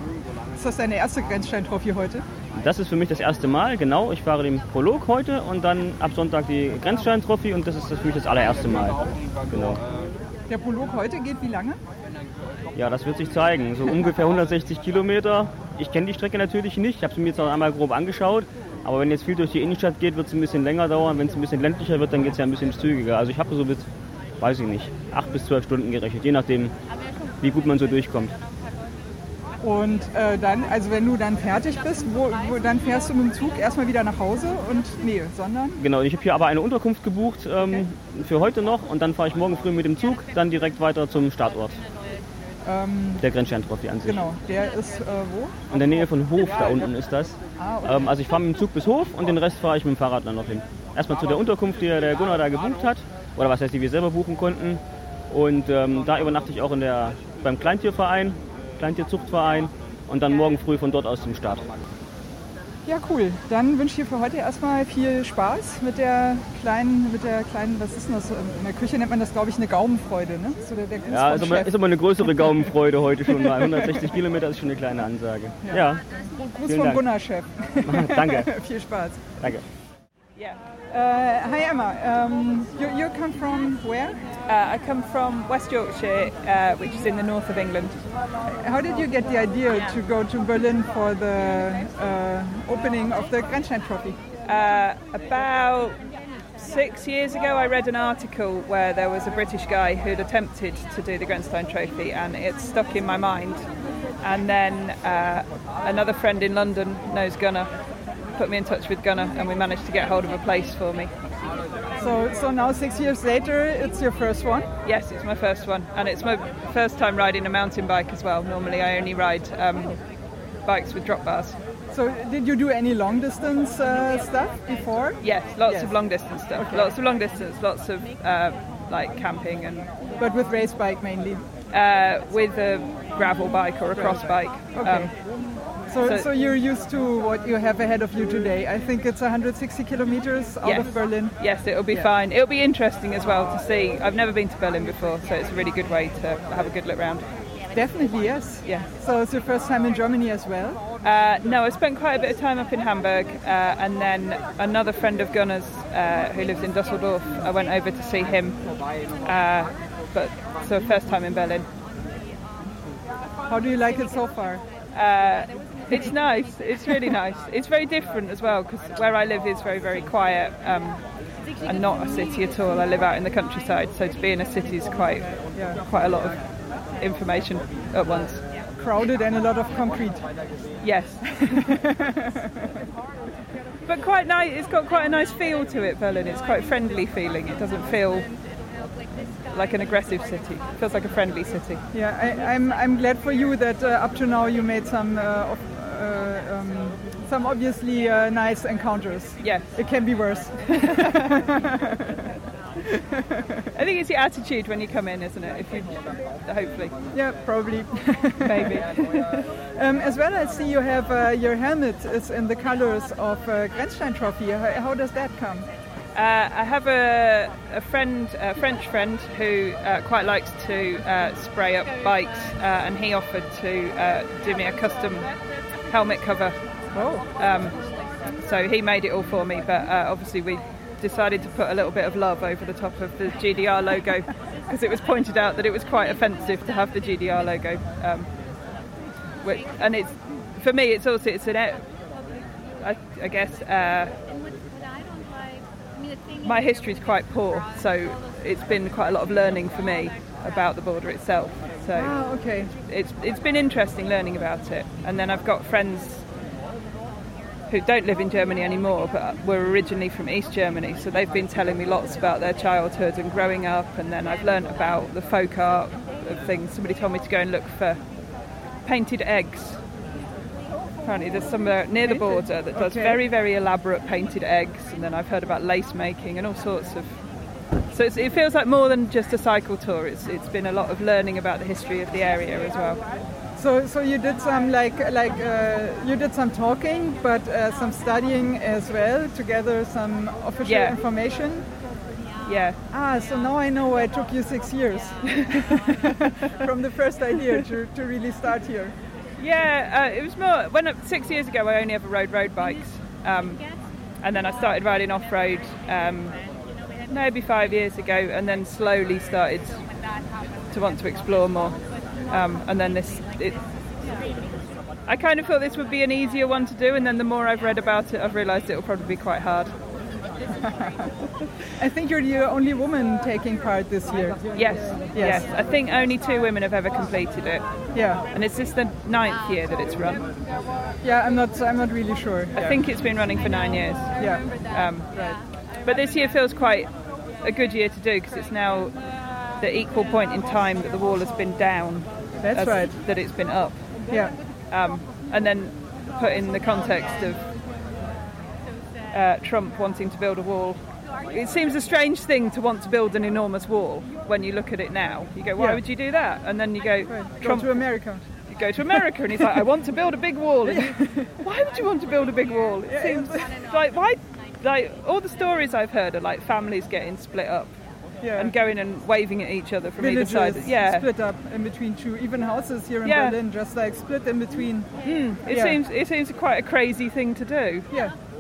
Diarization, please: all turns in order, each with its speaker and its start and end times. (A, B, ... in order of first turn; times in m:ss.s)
0:00.6-0:02.2 A
0:02.6-0:09.8 B
0:10.5-0:11.8 A
0:12.8-0:23.9 B
0:24.4-0:26.7 B
0:27.4-0:28.3 B
0:29.6-0:35.8 A
0:35.8-0:41.8 B
0:42.6-0:43.2 A
0:43.2-0:44.2 B
0:44.0-0:45.6 A
0:45.7-1:01.6 B
0:47.6-0:48.1 A
1:02.9-1:12.7 A
1:11.1-1:16.1 B
1:13.2-1:14.0 A
1:16.4-1:19.2 A
1:16.6-1:17.1 B
1:17.8-1:18.5 B
1:20.4-1:20.6 C
1:20.9-1:24.2 A
1:24.5-1:28.0 C
1:28.5-1:34.2 A
1:34.4-1:36.0 C
1:36.6-1:43.7 C
1:44.2-1:47.7 C
1:48.4-1:51.1 C
1:52.0-1:54.7 A
1:54.8-2:00.0 C
2:00.7-2:01.6 C
2:01.9-2:06.0 A
2:05.2-2:09.9 C
2:06.6-2:07.0 A
2:10.2-2:11.4 A
2:11.7-2:15.1 C
2:14.0-2:15.1 A
2:15.9-2:21.4 A
2:16.0-2:16.3 C
2:20.6-2:27.3 C
2:27.7-2:30.8 A
2:28.6-2:28.9 C
2:31.0-2:38.6 C
2:39.2-2:41.7 C
2:43.5-2:44.6 A
2:44.9-2:51.0 C
2:51.6-2:58.4 C
2:55.6-2:55.8 A
2:58.8-3:00.2 A
3:00.8-3:01.8 C
3:01.6-3:02.6 A
3:03.9-3:08.3 C
3:09.5-3:11.8 C
3:11.9-3:22.2 A
3:19.4-3:19.8 C
3:20.7-3:21.4 C
3:22.9-3:23.7 A
3:23.7-3:27.0 C
3:27.1-3:28.9 A
3:28.4-3:29.5 C
3:29.7-3:35.7 A
3:36.2-3:45.3 C
3:45.9-3:46.6 C
3:46.9-3:47.2 A
3:47.4-3:47.8 C
3:48.4-3:58.3 C
3:59.4-4:01.8 C
4:02.8-4:04.2 C
4:06.4-4:12.2 C
4:12.0-4:12.7 A
4:12.9-4:16.3 C
4:17.7-4:28.0 C
4:28.9-4:29.8 C
4:31.0-4:37.2 C
4:32.1-4:33.2 A
4:37.9-4:43.0 C
4:43.6-4:51.7 A
4:50.6-4:51.0 C
4:52.4-4:52.8 C
4:52.9-4:59.0 A
4:55.4-4:56.2 C
4:59.4-5:03.7 C
5:04.2-5:06.4 C
5:07.1-5:09.8 C
5:10.7-5:13.6 C
5:15.1-5:19.7 C
5:21.8-5:24.4 A
5:24.5-5:27.6 C
5:25.1-5:25.4 A
5:27.9-5:28.2 A
5:28.3-5:30.2 C
5:31.0-5:32.8 A
5:32.5-5:35.1 C
5:35.1-5:35.4 A
5:35.9-5:36.9 C
5:37.4-5:39.0 C
5:39.6-5:43.8 C
5:42.4-5:42.9 A
5:44.7-5:47.5 C
5:49.1-5:58.0 C
5:57.1-5:58.2 A
5:58.5-6:07.7 C
6:02.9-6:03.3 A
6:08.4-6:11.1 C
6:10.0-6:14.9 A
6:13.0-6:13.4 C
6:15.0-6:17.9 C
6:15.5-6:15.8 A